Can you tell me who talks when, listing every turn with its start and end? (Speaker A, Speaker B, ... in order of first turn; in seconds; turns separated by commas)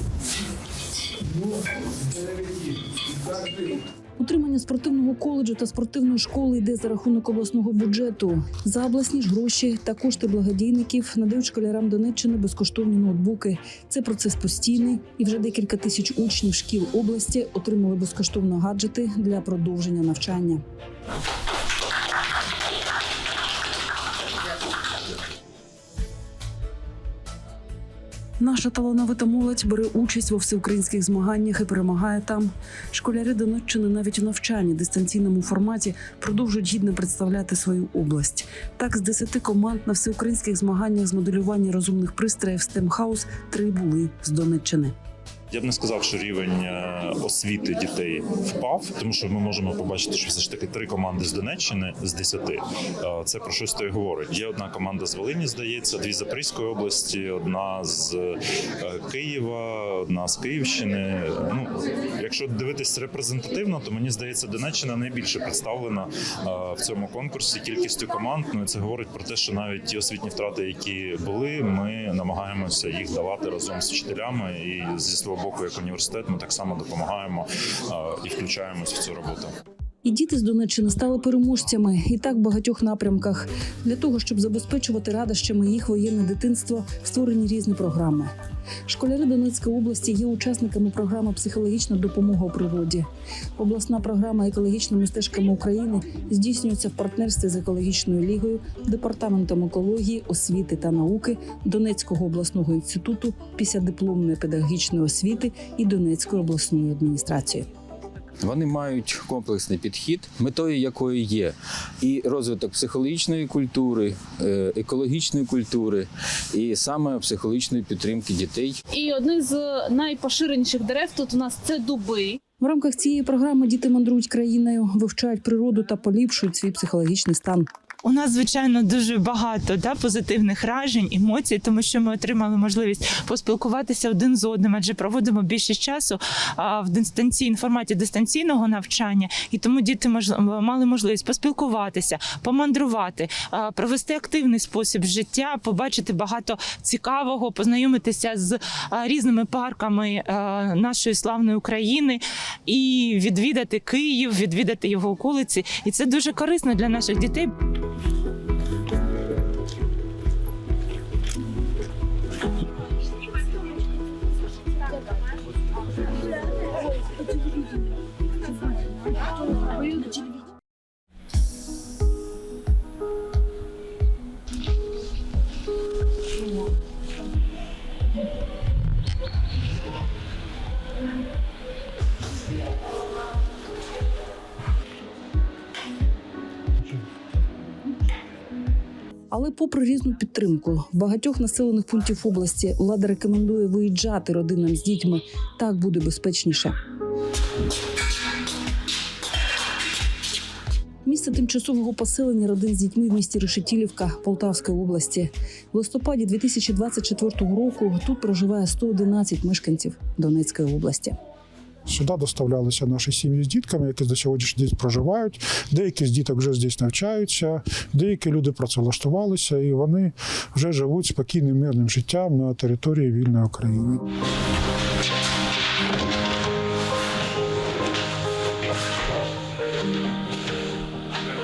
Speaker A: 4.2-20.6, Speaker A: 28.4-44.9, Speaker B: 45.5-79.5, Speaker A: 80.0-88.3, Speaker A: 88.9-93.0, Speaker A: 93.6-107.7, Speaker C: 108.4-118.8, Speaker D: 118.9-122.4, Speaker A: 122.6-127.7, Speaker E: 128.0-157.5, Speaker D: 169.8-170.1, Speaker A: 189.3-196.8, Speaker A: 201.0-211.2, Speaker F: 211.9-224.0